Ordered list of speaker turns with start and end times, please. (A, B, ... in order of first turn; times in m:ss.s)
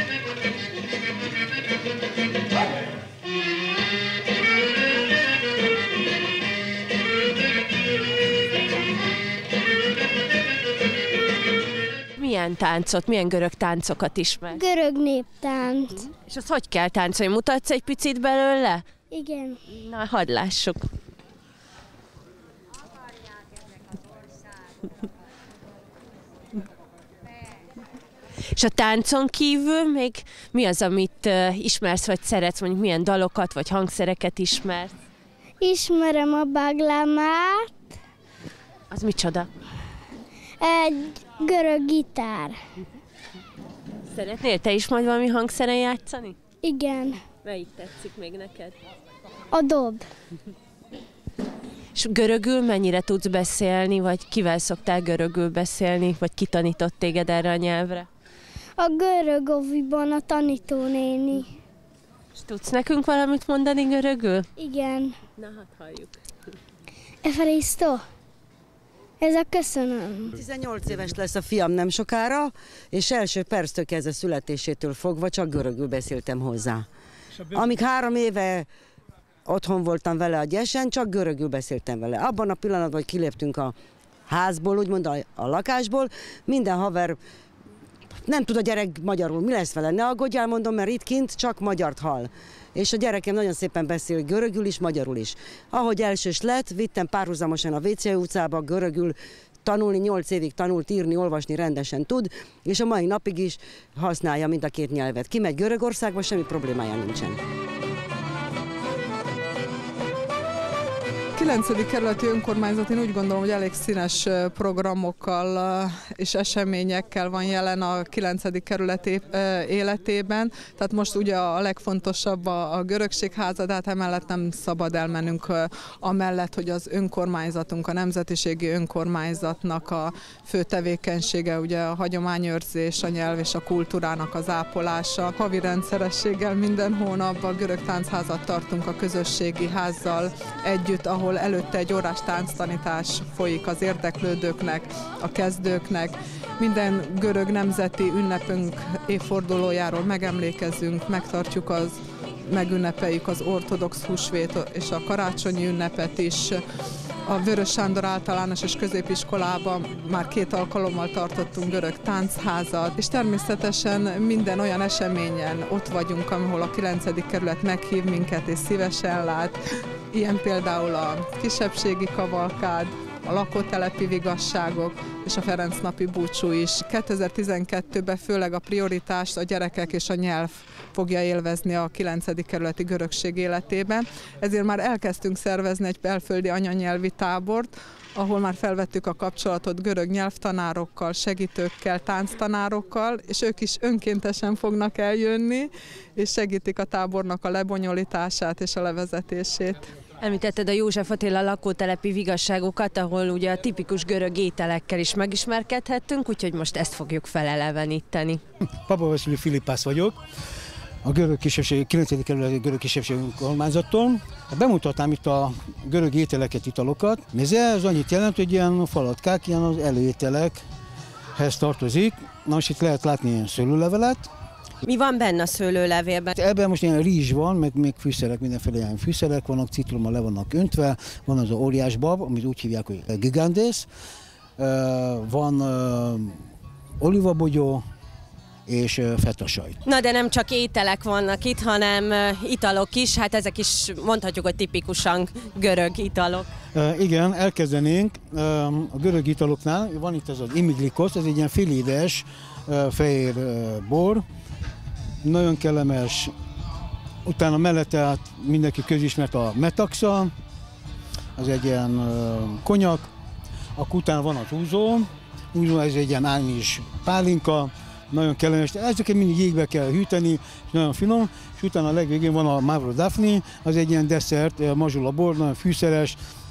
0:12.2-0:14.6 A
0:14.5-0:16.0 B
0:16.0-0:18.8 A
0:19.1-0:19.6 B
0:19.7-0:20.8 A
0:28.5-0:35.0 A
0:35.6-0:37.7 B
0:38.9-0:39.5 A
0:40.6-0:42.6 B
0:44.1-0:46.4 A
0:46.6-0:47.2 B
0:47.4-0:48.7 A
0:49.5-0:50.1 B
0:51.9-0:58.1 A
0:58.8-1:01.5 B
1:02.3-1:04.5 A
1:04.6-1:05.2 B
1:05.4-1:06.2 A
1:07.2-1:08.0 B
1:09.2-1:10.3 B
1:10.3-1:16.8 C
1:17.5-1:18.7 C
1:19.4-1:23.7 C
1:24.3-1:27.2 C
1:28.2-1:47.4 C
1:51.4-2:36.6 D
2:37.3-2:49.6 D
2:50.1-3:19.8 D
3:20.2-3:28.4 A
3:28.9-3:30.2 E
3:31.0-3:40.6 E
3:41.4-3:44.3 E
3:44.8-3:46.3 A
3:46.4-3:53.9 E
3:54.6-3:56.4 E
3:57.0-3:57.8 E
3:58.7-3:59.8 E
3:59.8-4:06.5 A
4:06.7-4:14.2 E
4:15.2-4:16.3 E
4:17.2-4:20.3 E
4:21.4-4:23.1 E
4:23.8-4:36.2 E